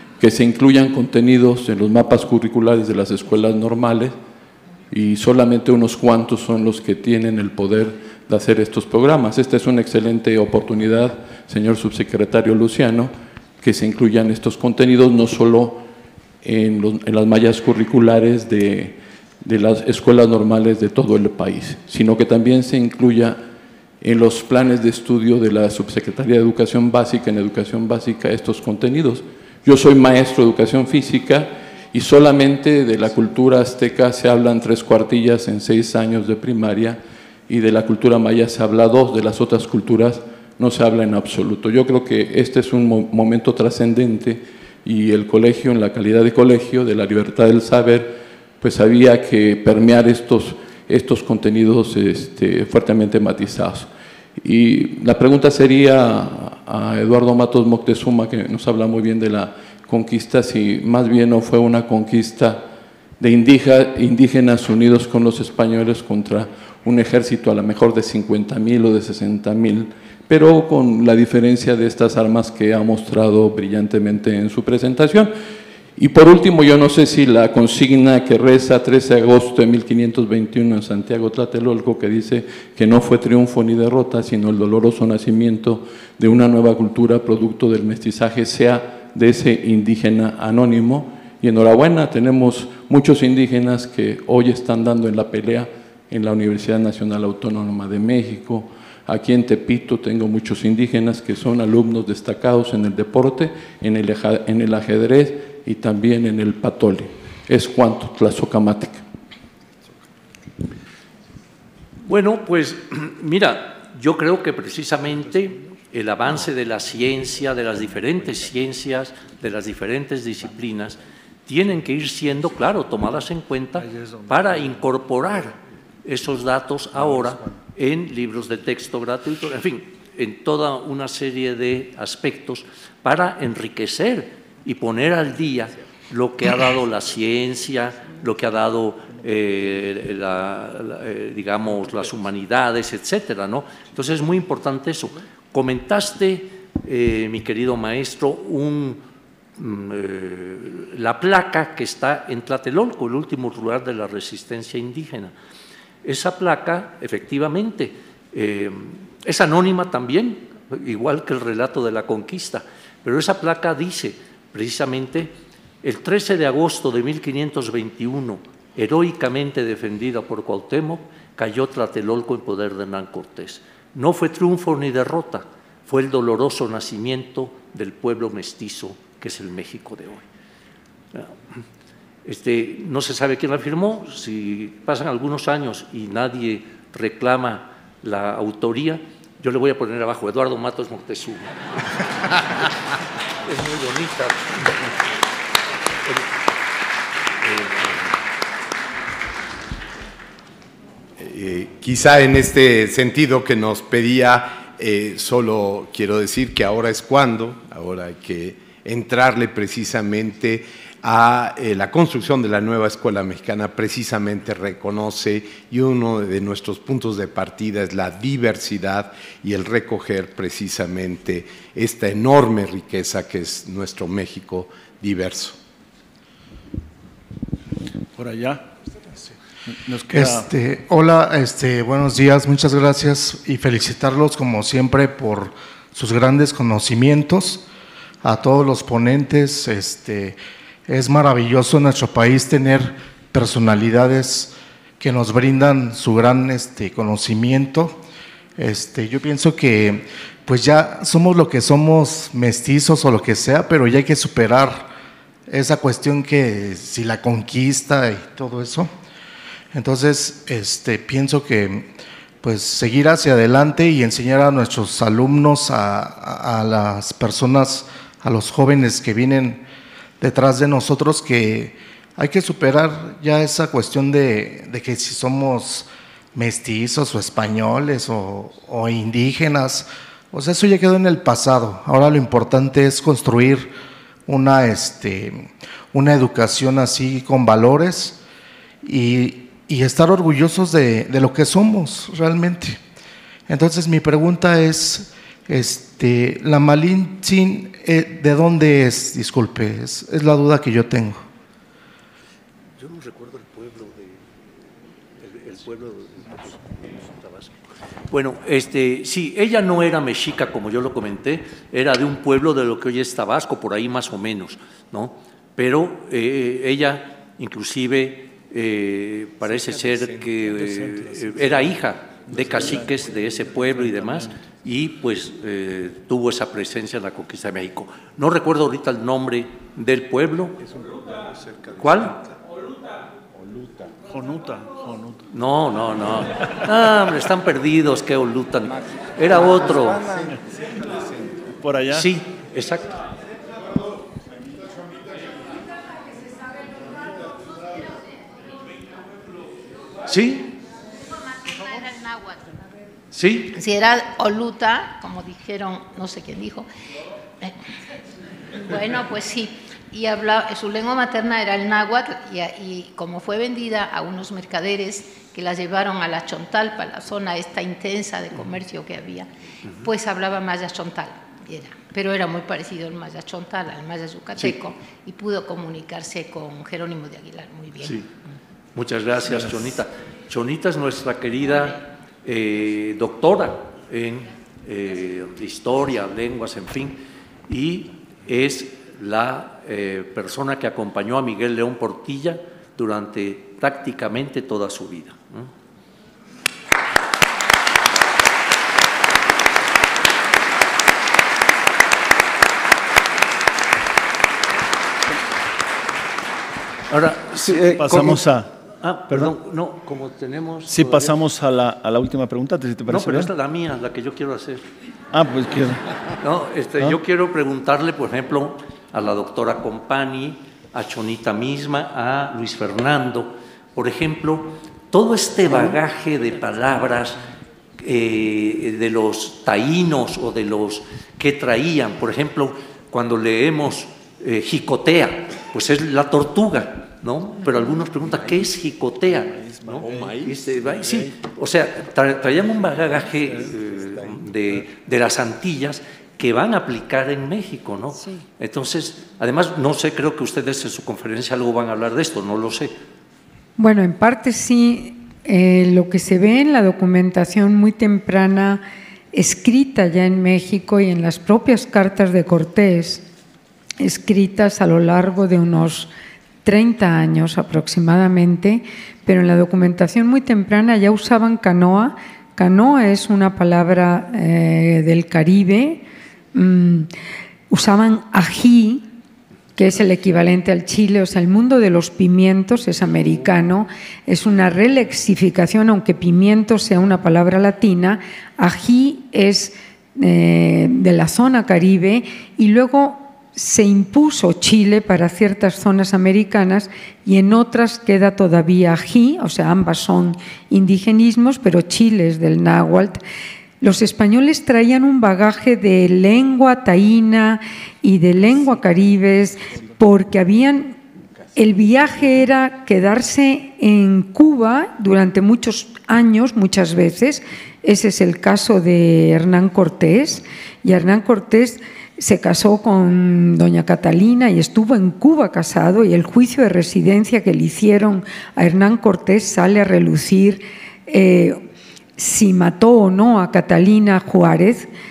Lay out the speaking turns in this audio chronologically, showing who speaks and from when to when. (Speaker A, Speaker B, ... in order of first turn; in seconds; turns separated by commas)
Speaker A: 0.2-4.2, Speaker A: 4.9-15.8, Speaker A: 16.4-23.4, Speaker A: 24.0-62.6, Speaker A: 63.2-75.3, Speaker A: 76.0-109.0, Speaker B: 112.0-149.0, Speaker C: 123.9-124.2, Speaker B: 149.6-155.3, Speaker B: 156.0-180.2, Speaker B: 181.1-181.6, Speaker B: 182.2-192.7, Speaker B: 193.4-194.8, Speaker B: 197.4-198.1, Speaker D: 201.2-225.6, Speaker C: 228.1-230.5, Speaker E: 230.1-237.7, Speaker E: 238.2-248.0, Speaker E: 248.6-254.9, Speaker E: 255.5-258.9, Speaker E: 259.7-269.6, Speaker E: 270.2-283.7, Speaker E: 284.3-288.2, Speaker E: 288.8-292.8, Speaker E: 293.5-301.2, Speaker B: 302.8-330.7, Speaker C: 319.8-321.5, Speaker C: 322.3-324.3, Speaker B: 331.6-332.3, Speaker C: 334.1-335.3, Speaker B: 335.3-340.3, Speaker C: 340.1-342.1, Speaker B: 341.9-343.0, Speaker B: 350.1-350.6, Speaker F: 351.3-352.6, Speaker B: 353.1-353.5, Speaker F: 353.5-356.7, Speaker F: 358.6-378.0, Speaker B: 377.8-378.1, Speaker B: 378.7-395.5, Speaker B: 406.9-411.1, Speaker C: 407.3-408.5, Speaker C: 409.1-409.3, Speaker C: 410.7-413.3, Speaker B: 412.9-414.7, Speaker C: 415.1-415.9, Speaker B: 416.2-427.2, Speaker B: 427.8-452.7, Speaker C: 439.1-440.3, Speaker G: 453.6-463.0, Speaker G: 463.8-465.9, Speaker G: 466.4-475.8, Speaker G: 476.3-476.9, Speaker G: 477.5-478.9, Speaker G: 479.6-503.0, Speaker G: 503.6-510.8, Speaker G: 511.3-531.5, Speaker G: 532.0-534.7